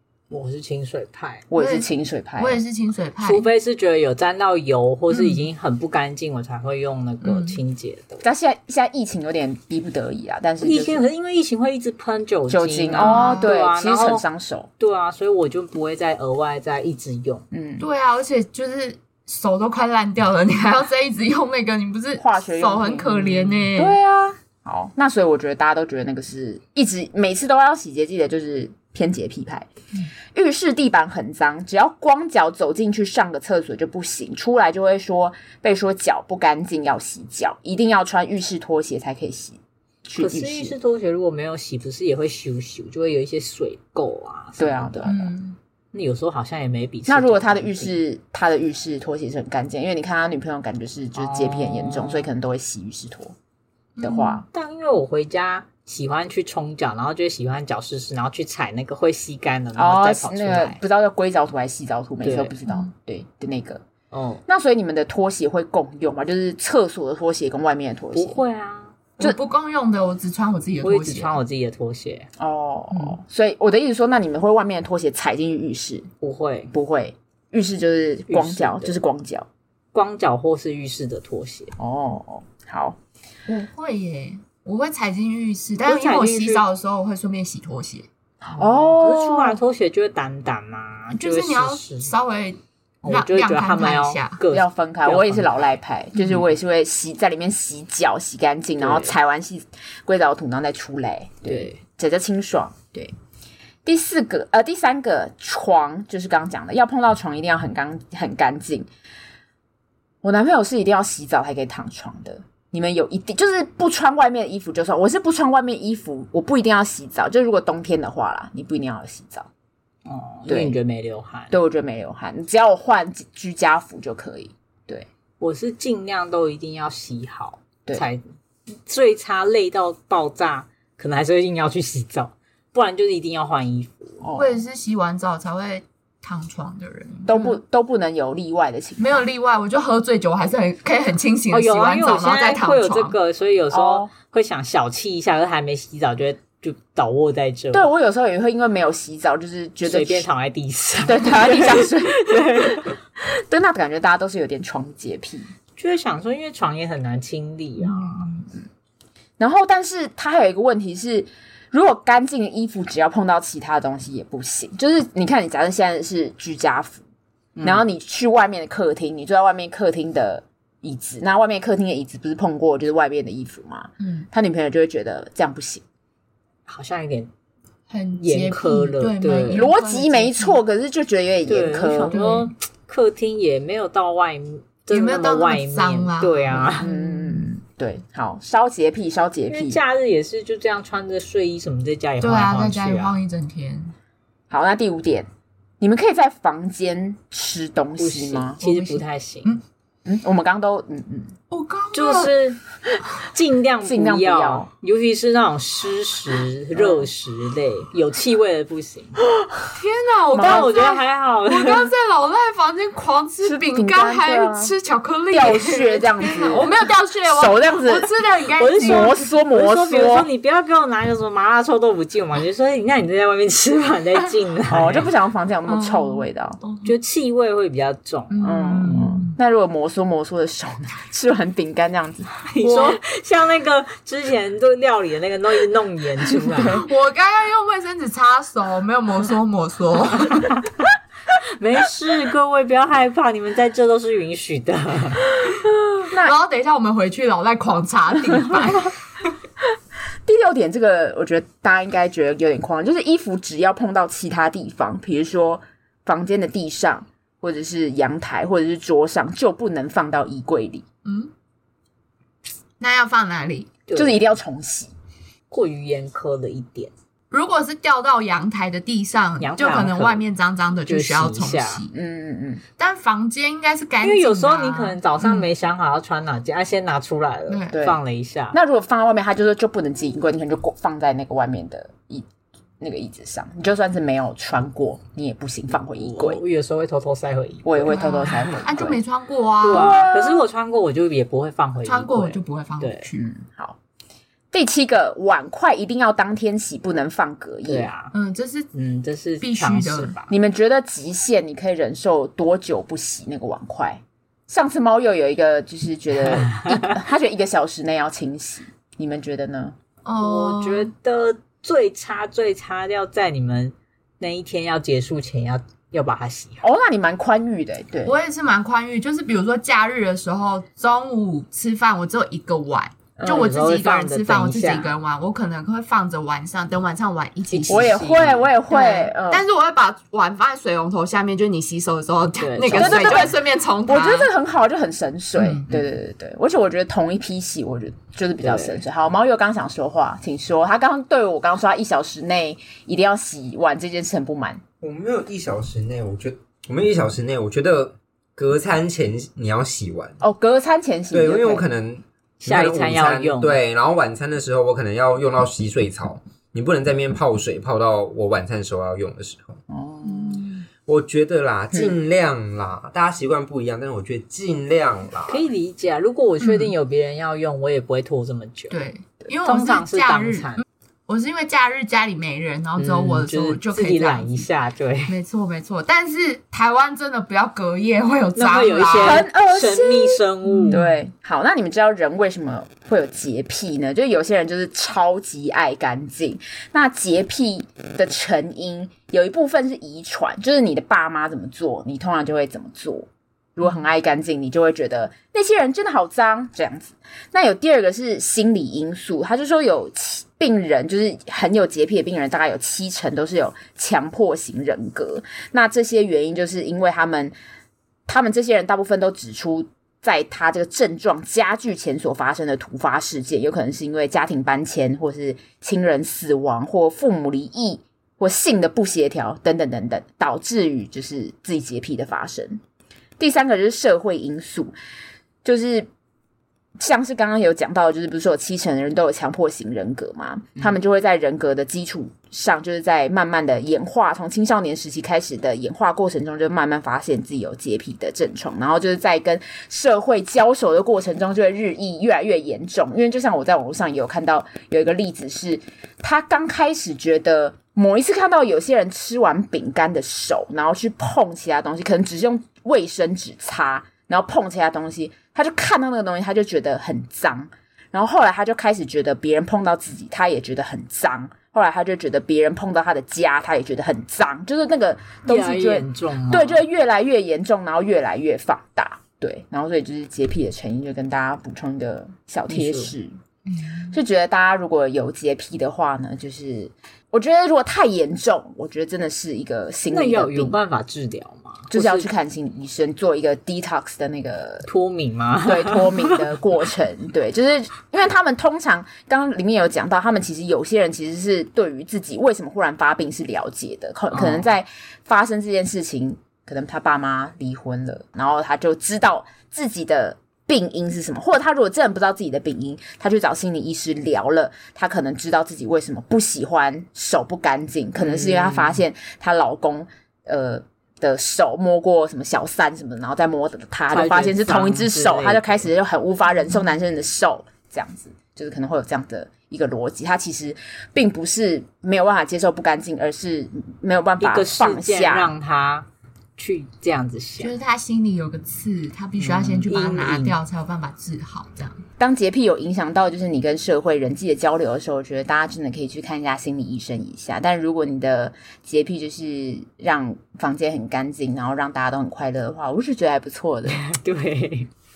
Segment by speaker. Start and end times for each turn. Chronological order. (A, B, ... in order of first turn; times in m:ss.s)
0:00.3-0:01.5 A
0:01.5-0:02.6 B
0:01.6-0:03.5 C
0:03.2-0:08.2 A
0:05.1-0:05.4 C
0:07.2-0:07.6 C
0:08.2-0:11.0 B
0:10.6-0:14.2 A
0:12.5-0:14.7 B
0:13.0-0:13.5 C
0:14.8-0:17.4 A
0:17.5-0:17.9 B
0:17.8-0:24.0 C
0:22.2-0:29.7 B
0:30.3-0:40.7 B
0:40.2-0:45.1 A
0:44.6-0:45.3 B
0:45.0-0:45.6 C
0:45.9-0:48.0 A
0:47.1-0:53.4 B
0:51.2-0:52.3 A
0:54.0-0:54.4 C
0:54.0-0:54.4 B
0:54.5-1:00.8 A
0:59.8-1:03.8 B
1:02.2-1:02.5 A
1:04.1-1:04.4 A
1:04.5-1:08.4 B
1:08.1-1:09.0 A
1:09.2-1:11.4 C
1:10.8-1:12.3 A
1:12.4-1:16.1 B
1:16.2-1:16.7 A
1:16.7-1:19.5 B
1:18.3-1:19.0 A
1:19.9-1:21.7 A
1:21.8-1:23.0 B
1:23.5-1:28.1 C
1:25.8-1:26.6 A
1:28.4-1:29.6 B
1:28.6-1:32.1 A
1:31.2-1:34.4 C
1:33.0-1:35.6 A
1:34.5-1:43.1 B
1:38.8-1:39.1 A
1:41.5-1:41.8 A
1:43.8-1:48.9 B
1:50.2-1:59.5 B
2:00.0-2:01.5 A
2:00.5-2:00.8 B
2:01.5-2:05.1 B
2:05.4-2:08.2 A
2:08.8-2:14.2 A
2:14.2-2:14.6 B
2:14.4-2:17.6 C
2:17.3-2:19.2 B
2:19.0-2:23.2 C
2:21.5-2:27.9 A
2:23.7-2:24.1 B
2:27.7-2:30.3 B
2:29.8-2:32.9 A
2:31.0-2:35.5 B
2:35.8-2:38.4 A
2:38.0-2:38.2 C
2:39.4-2:47.0 B
2:47.6-2:47.8 A
2:47.6-2:55.8 B
2:54.0-2:54.3 C
2:56.7-2:57.3 A
2:57.9-3:00.6 C
2:58.2-2:59.7 A
2:59.5-3:02.2 B
3:01.5-3:06.9 A
3:02.1-3:02.5 C
3:04.9-3:07.5 C
3:06.8-3:09.8 B
3:09.5-3:13.2 A
3:12.2-3:13.9 C
3:14.5-3:15.3 B
3:15.8-3:18.6 B
3:18.0-3:19.6 A
3:18.6-3:19.6 C
3:20.0-3:21.4 B
3:21.5-3:22.3 C
3:21.9-3:22.6 A
3:23.2-3:29.2 A
3:23.8-3:24.7 B
3:26.8-3:27.1 B
3:29.7-3:39.2 C
3:30.3-3:30.7 B
3:30.4-3:31.9 A
3:33.4-3:34.7 B
3:35.3-3:36.7 B
3:37.2-3:38.1 B
3:38.6-3:45.1 A
3:38.8-3:40.3 B
3:44.7-3:46.6 B
3:45.7-3:46.9 C
3:46.8-3:49.0 A
3:48.3-3:49.3 C
3:48.4-3:52.3 B
3:52.5-3:56.8 A
3:52.6-3:53.0 C
3:56.5-3:56.8 B
3:56.7-4:00.7 C
4:00.3-4:00.7 A
4:01.6-4:05.2 A
4:06.1-4:06.4 B
4:06.1-4:08.9 C
4:10.2-4:20.8 B
4:21.0-4:21.3 C
4:22.8-4:23.7 C
4:23.9-4:24.2 A
4:23.9-4:24.9 B
4:25.5-4:26.9 A
4:27.3-4:31.9 C
4:29.4-4:30.2 A
4:30.9-4:31.8 A
4:31.9-4:32.6 B
4:32.8-4:35.5 C
4:34.0-4:38.6 A
4:37.5-4:37.8 C
4:37.7-4:38.0 B
4:38.5-4:42.3 B
4:42.8-4:46.4 B
4:46.0-4:48.5 A
4:47.6-4:49.0 B
4:47.9-4:50.1 C
4:49.6-4:53.1 A
4:49.7-4:50.4 B
4:51.8-4:53.2 C
4:53.2-4:53.8 B
4:54.5-4:57.9 B
4:57.7-4:58.1 A
4:58.1-4:58.7 C
4:58.7-5:00.3 A
4:59.4-5:00.2 C
5:00.3-5:09.8 B
5:06.3-5:07.0 A
5:10.0-5:10.9 C
5:10.2-5:16.6 A
5:16.6-5:18.2 B
5:18.0-5:28.0 C
5:23.2-5:23.5 B
5:23.2-5:24.9 A
5:27.5-5:28.5 A
5:27.7-5:29.4 B
5:28.7-5:34.3 C
5:32.4-5:33.3 A
5:32.7-5:44.6 B
5:35.4-5:35.7 C
5:38.4-5:38.8 A
5:44.8-5:50.2 D
5:50.2-5:51.7 B
5:51.1-5:59.6 D
5:52.4-5:53.6 A
5:59.7-6:00.5 B
6:00.1-6:00.5 C
6:00.9-6:05.4 D
6:05.3-6:08.8 A
6:06.4-6:06.7 C
6:08.7-6:14.4 C
6:09.4-6:10.6 A
6:12.8-6:15.1 A
6:15.1-6:19.2 C
6:18.4-6:20.8 A
6:19.0-6:20.2 B
6:20.5-6:21.0 C
6:20.7-6:47.3 B
6:48.1-7:02.6 B
7:03.2-7:04.8 B
7:05.4-7:05.9 B
7:06.8-7:53.1 B
7:45.3-7:46.6 A
7:52.5-7:52.9 A
7:53.9-8:00.6 B
7:59.9-8:02.1 A
8:01.7-8:04.7 B
8:04.6-8:06.4 A
8:05.4-8:45.3 B
8:14.1-8:14.5 A
8:28.0-8:28.8 A
8:33.9-8:35.7 A
8:44.2-8:47.6 A
8:47.4-8:51.8 C
8:49.2-8:49.7 B
8:49.7-8:50.4 A
8:52.0-9:03.8 B
9:03.7-9:04.7 A